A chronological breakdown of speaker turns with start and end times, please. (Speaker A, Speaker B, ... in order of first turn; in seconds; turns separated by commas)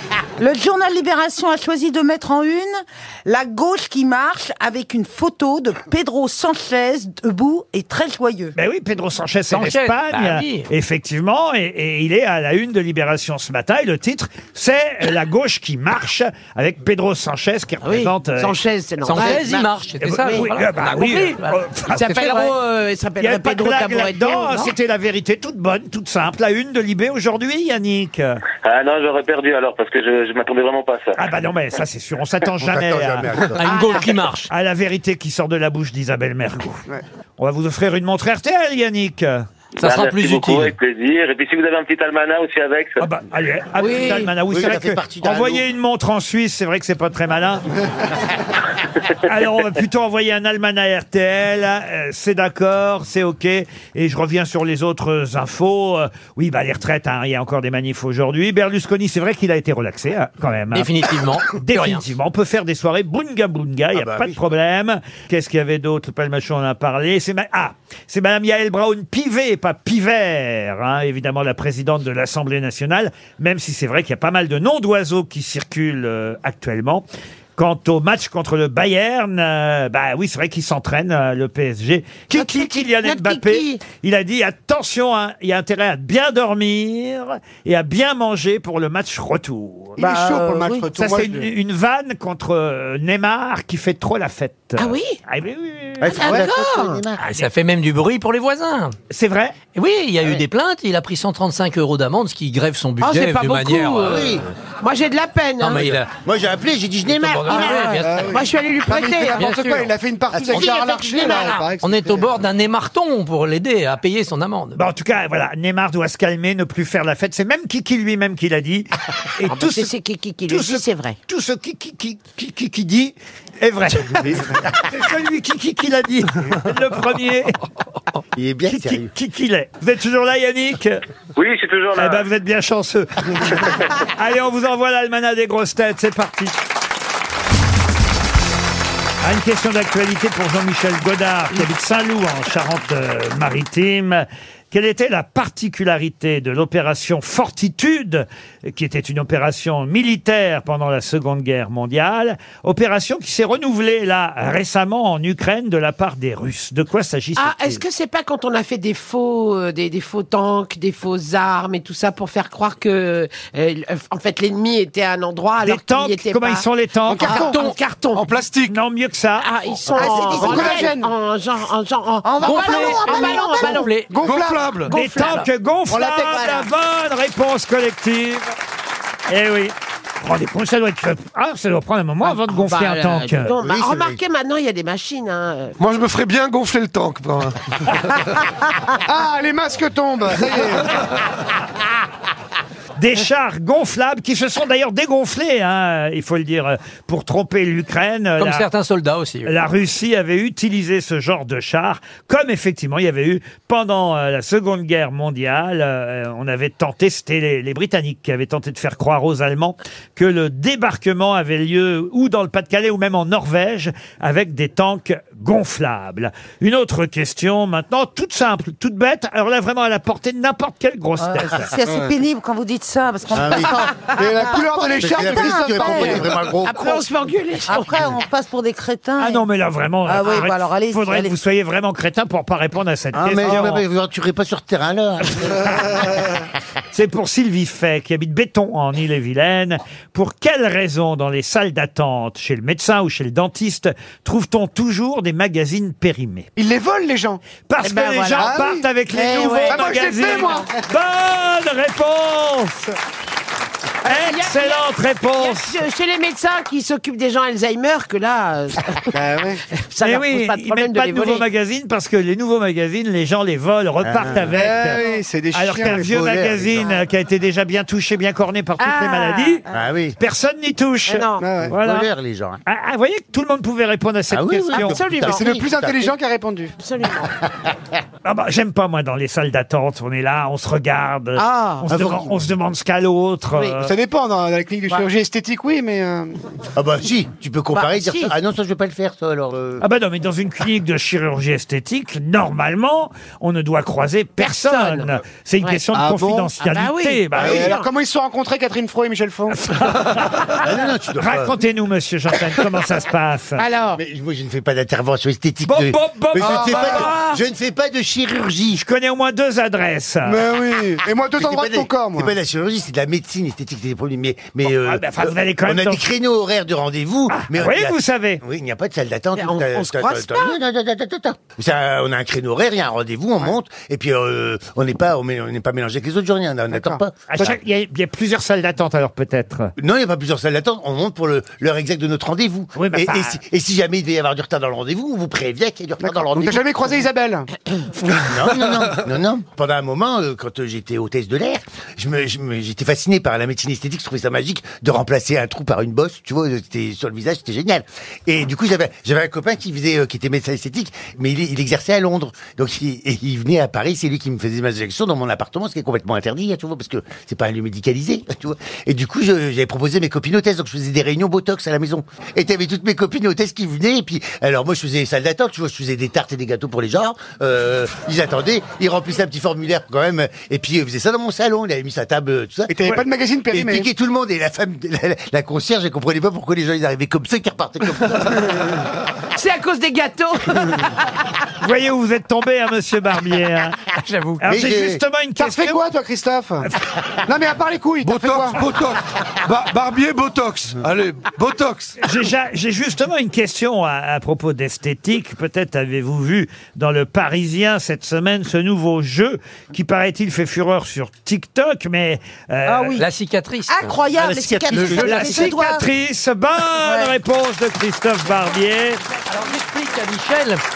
Speaker A: 0.4-8.5, Speaker B: 8.5-18.6, Speaker C: 9.5-10.7, Speaker D: 17.8-19.7, Speaker C: 19.0-21.6, Speaker B: 20.0-22.5, Speaker D: 20.2-20.5, Speaker D: 21.9-24.7, Speaker B: 23.2-28.4, Speaker E: 28.5-31.2, Speaker B: 31.2-33.3, Speaker F: 32.6-33.6, Speaker C: 33.6-34.5, Speaker D: 33.6-34.2, Speaker B: 34.5-36.8, Speaker B: 37.4-39.5, Speaker C: 39.8-40.7, Speaker E: 39.8-43.0, Speaker B: 43.0-47.6, Speaker D: 43.8-44.3, Speaker F: 44.5-45.6, Speaker B: 49.2-60.9, Speaker C: 60.7-62.0, Speaker B: 61.5-77.0, Speaker F: 63.9-64.4, Speaker B: 77.5-90.0, Speaker D: 82.3-83.8, Speaker A: 90.0-90.9, Speaker G: 90.0-91.5, Speaker B: 91.0-96.2, Speaker D: 94.8-95.2, Speaker F: 96.0-97.4, Speaker D: 96.1-97.0, Speaker C: 97.2-99.0, Speaker B: 99.1-99.6, Speaker C: 99.7-104.4, Speaker D: 103.0-106.0, Speaker F: 104.0-104.4, Speaker C: 105.6-106.1, Speaker F: 106.2-107.9, Speaker C: 107.1-108.4, Speaker D: 107.2-109.5, Speaker G: 108.0-112.3, Speaker C: 109.3-109.9, Speaker F: 110.3-111.5, Speaker C: 111.2-114.8, Speaker B: 114.8-119.9, Speaker D: 119.4-121.2, Speaker B: 120.5-127.6, Speaker F: 124.2-124.5, Speaker F: 128.3-129.1, Speaker B: 128.7-131.0, Speaker E: 131.3-132.2, Speaker B: 131.9-136.6, Speaker B: 139.2-157.8, Speaker D: 157.3-166.7, Speaker B: 165.6-167.4, Speaker G: 167.1-167.7, Speaker D: 167.2-168.2, Speaker H: 168.1-168.8, Speaker B: 168.7-169.6, Speaker D: 169.4-174.0, Speaker A: 170.0-170.9, Speaker G: 170.0-171.1, Speaker A: 172.2-173.9, Speaker C: 172.4-174.1, Speaker G: 174.1-174.8, Speaker H: 174.2-174.9, Speaker D: 174.9-175.4, Speaker B: 174.9-178.5, Speaker G: 175.9-176.5, Speaker D: 176.2-176.7, Speaker B: 179.3-183.6, Speaker D: 182.2-185.7, Speaker F: 183.6-184.2, Speaker H: 185.8-188.2, Speaker G: 189.1-191.0, Speaker B: 193.0-198.7, Speaker C: 198.4-199.5, Speaker B: 199.4-221.7, Speaker A: 221.2-226.3, Speaker F: 223.3-224.1, Speaker G: 224.1-226.4, Speaker F: 225.0-227.0, Speaker D: 226.6-228.1, Speaker A: 227.7-229.4, Speaker B: 229.2-233.8, Speaker A: 230.0-231.3, Speaker F: 233.1-235.9, Speaker B: 236.9-246.5, Speaker G: 246.6-247.4, Speaker B: 247.7-252.8, Speaker D: 247.8-250.6, Speaker G: 248.4-248.8, Speaker G: 249.7-250.8, Speaker B: 254.0-255.8, Speaker D: 254.0-259.2, Speaker G: 259.1-259.6, Speaker D: 259.7-261.4, Speaker B: 260.0-269.6, Speaker F: 264.0-264.6, Speaker G: 264.5-266.4, Speaker F: 265.9-266.9, Speaker D: 268.8-269.6, Speaker F: 269.7-270.2, Speaker B: 270.2-272.1, Speaker D: 271.1-271.5, Speaker G: 271.4-271.7, Speaker F: 271.7-272.6, Speaker B: 272.6-275.1, Speaker F: 274.3-276.1, Speaker D: 274.7-275.5, Speaker G: 275.3-276.8, Speaker D: 276.8-277.3, Speaker B: 278.2-283.9, Speaker D: 281.4-281.9, Speaker F: 281.9-282.3, Speaker D: 283.5-283.8, Speaker G: 283.8-286.4, Speaker F: 286.8-289.8, Speaker D: 287.7-288.3, Speaker B: 289.8-297.7, Speaker D: 294.4-295.9, Speaker G: 295.9-296.5, Speaker D: 296.6-297.9, Speaker G: 297.3-299.7, Speaker F: 297.4-297.7, Speaker B: 299.6-300.5, Speaker F: 300.6-301.6, Speaker B: 301.2-303.6, Speaker D: 303.6-304.0, Speaker F: 303.9-308.8, Speaker B: 305.6-307.4, Speaker G: 306.4-307.2, Speaker B: 308.8-310.4, Speaker G: 310.2-312.3, Speaker F: 311.4-327.6, Speaker B: 314.7-316.0, Speaker B: 317.3-318.4, Speaker D: 319.3-320.6, Speaker G: 326.7-327.6, Speaker B: 327.3-329.7, Speaker F: 329.8-336.6, Speaker B: 332.8-333.4, Speaker G: 336.0-337.5, Speaker F: 338.2-372.8, Speaker G: 372.7-373.9, Speaker F: 373.5-378.5, Speaker D: 379.3-380.9, Speaker B: 381.6-383.8, Speaker C: 384.0-384.4, Speaker B: 384.4-385.8, Speaker F: 384.4-385.0, Speaker G: 385.4-386.7, Speaker G: 387.2-388.6, Speaker H: 388.0-392.0, Speaker B: 392.0-403.0, Speaker A: 402.6-403.0, Speaker C: 403.0-403.9, Speaker A: 403.7-405.9, Speaker F: 404.1-405.5, Speaker C: 404.7-405.1, Speaker B: 404.9-409.0, Speaker A: 406.8-407.1, Speaker C: 409.3-410.6